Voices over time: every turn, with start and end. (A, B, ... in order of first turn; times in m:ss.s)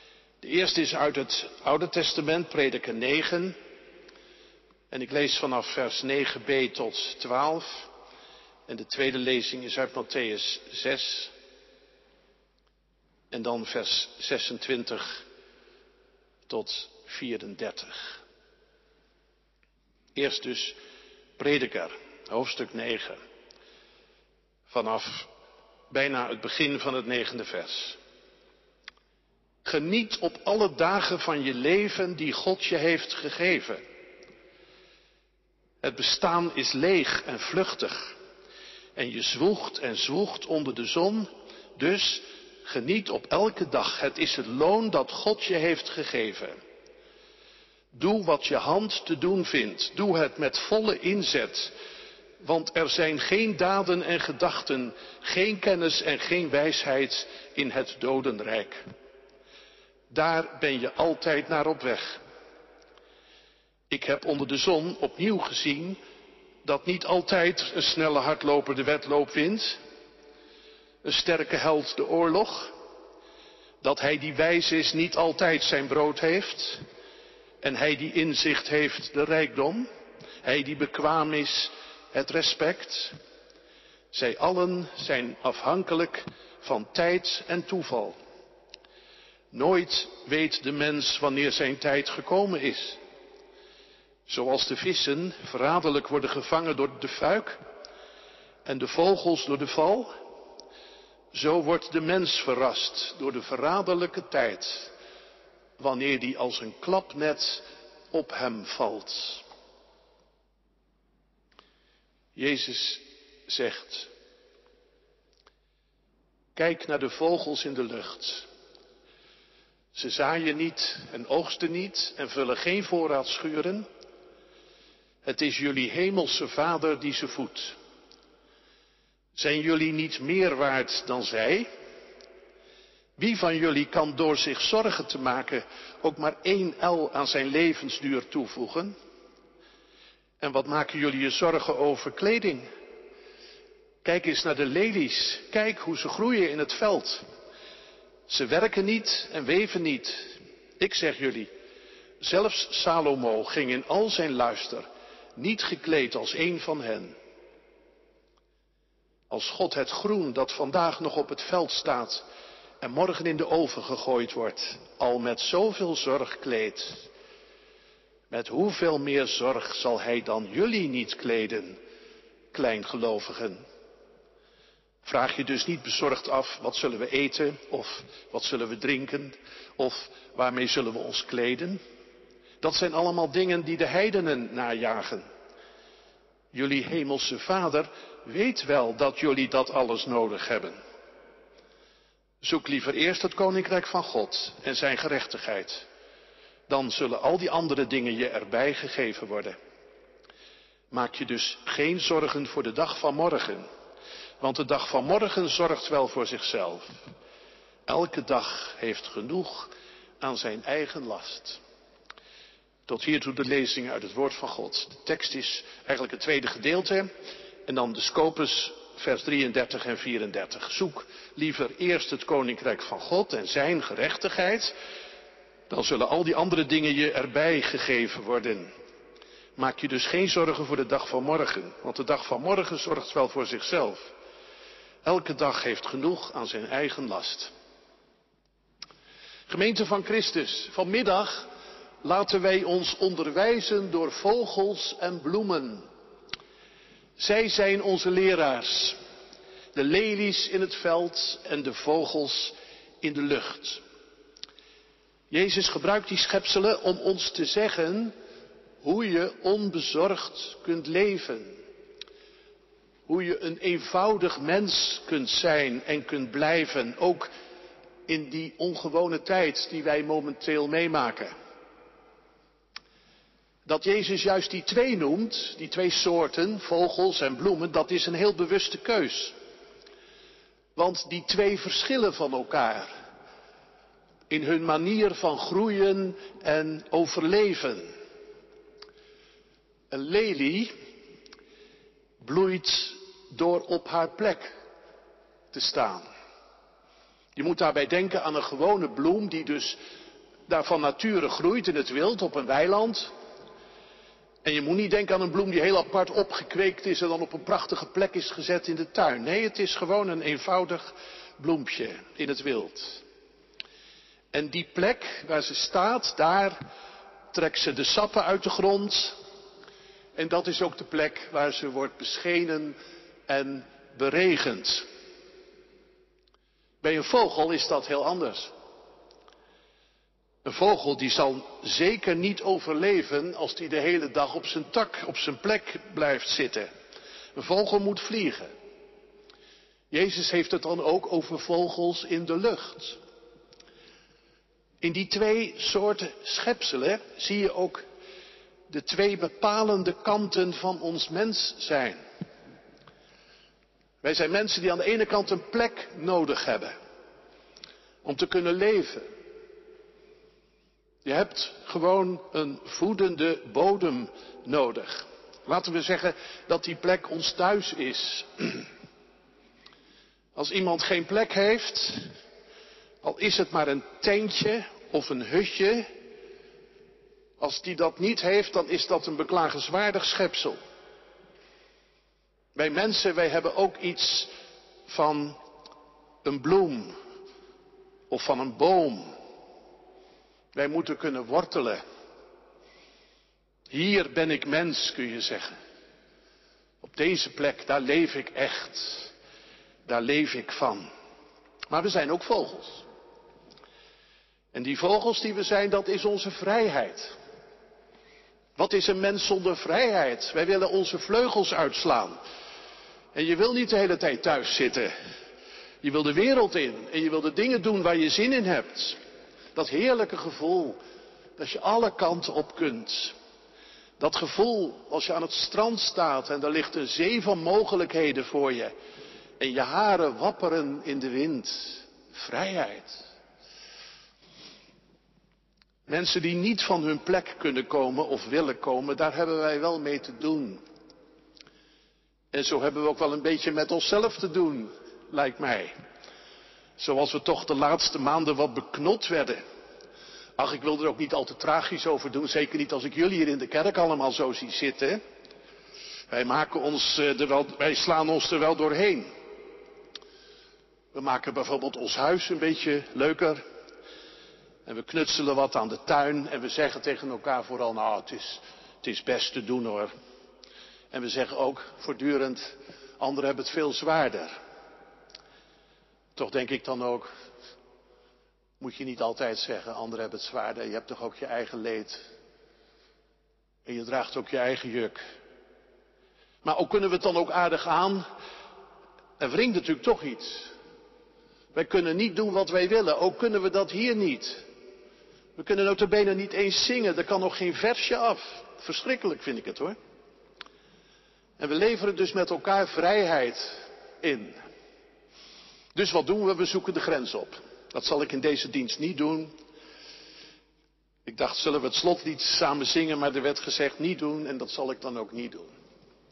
0:00.4-0:03.6 A
0:04.9-0:07.9 A
0:08.7-0:11.3 A
0:13.3-0:15.2 A
0:16.5-0:18.2 A
0:20.2-0:20.8 A
0:21.4-0:23.2 A
0:24.7-0:25.3 A
0:25.9-0:28.0 A
0:29.6-0:33.8 A
0:35.8-0:38.2 A
0:39.0-0:46.6 A
0:47.9-0:51.8 A
0:52.4-0:58.8 A
1:00.1-1:02.2 A
1:03.9-1:06.0 A
1:06.6-1:09.8 A
1:11.0-1:12.7 A
1:13.8-1:16.8 A
1:17.6-1:19.9 A
1:20.4-1:23.2 A
1:24.1-1:28.2 A
1:29.5-1:33.0 A
1:34.3-1:37.6 A
1:38.6-1:40.1 A
1:41.3-1:44.9 A
1:45.8-1:49.4 A
1:52.4-1:54.1 A
1:56.6-1:58.5 A
1:59.9-2:03.9 A
2:05.2-2:07.8 A
2:09.4-2:11.7 A
2:13.2-2:18.9 A
2:20.4-2:22.7 A
2:24.0-2:27.2 A
2:28.3-2:31.5 A
2:32.2-2:37.2 A
2:39.3-2:42.2 A
2:42.8-2:47.1 A
2:48.3-2:51.8 A
2:52.5-2:53.6 A
2:55.0-3:01.8 A
3:02.6-3:05.3 A
3:06.5-3:10.8 A
3:12.4-3:15.9 A
3:16.7-3:19.6 A
3:20.9-3:23.7 A
3:24.4-3:26.9 A
3:27.9-3:31.6 A
3:32.9-3:37.1 A
3:37.7-3:44.7 A
3:45.7-3:48.7 A
3:49.6-3:54.1 A
3:55.0-3:57.5 A
3:59.5-4:01.5 A
4:02.0-4:05.9 A
4:07.2-4:09.0 A
4:09.7-4:13.8 A
4:15.3-4:18.1 A
4:18.8-4:21.6 A
4:23.1-4:27.3 A
4:28.1-4:31.3 A
4:33.7-4:39.4 A
4:40.8-4:42.9 A
4:44.3-4:47.9 A
4:49.9-4:50.7 A
4:52.2-4:54.5 A
4:55.5-4:56.1 A
4:57.4-4:59.8 A
5:00.5-5:03.1 A
5:04.4-5:13.0 A
5:14.3-5:16.6 A
5:17.3-5:19.2 A
5:20.2-5:22.8 A
5:23.3-5:24.9 A
5:26.8-5:28.5 A
5:30.4-5:36.7 A
5:37.4-5:38.5 A
5:39.9-5:43.0 A
5:44.8-5:47.8 A
5:48.7-5:52.0 A
5:54.0-5:56.7 A
5:58.0-5:59.1 A
6:01.0-6:08.7 A
6:10.4-6:12.1 A
6:13.0-6:15.9 A
6:17.4-6:20.6 A
6:22.6-6:24.3 A
6:24.9-6:25.4 A
6:26.2-6:27.0 A
6:28.1-6:29.1 A
6:30.5-6:31.8 A
6:33.7-6:35.6 A
6:36.8-6:39.1 A
6:39.9-6:40.9 A
6:41.7-6:42.8 A
6:44.5-6:47.1 A
6:48.6-6:52.2 A
6:53.1-6:54.9 A
6:55.8-6:59.0 A
6:59.6-7:00.8 A
7:01.4-7:03.2 A
7:04.0-7:08.7 A
7:09.4-7:13.0 A
7:15.9-7:20.6 A
7:22.3-7:25.7 A
7:26.8-7:29.4 A
7:30.4-7:35.0 A
7:36.1-7:39.1 A
7:40.9-7:43.4 A
7:44.7-7:49.9 A
7:50.9-7:54.3 A
7:56.2-7:57.1 A
7:58.6-8:02.0 A
8:03.7-8:05.0 A
8:06.4-8:08.0 A
8:09.2-8:10.5 A
8:11.5-8:14.4 A
8:15.4-8:19.8 A
8:21.4-8:24.4 A
8:25.8-8:29.3 A
8:31.1-8:35.5 A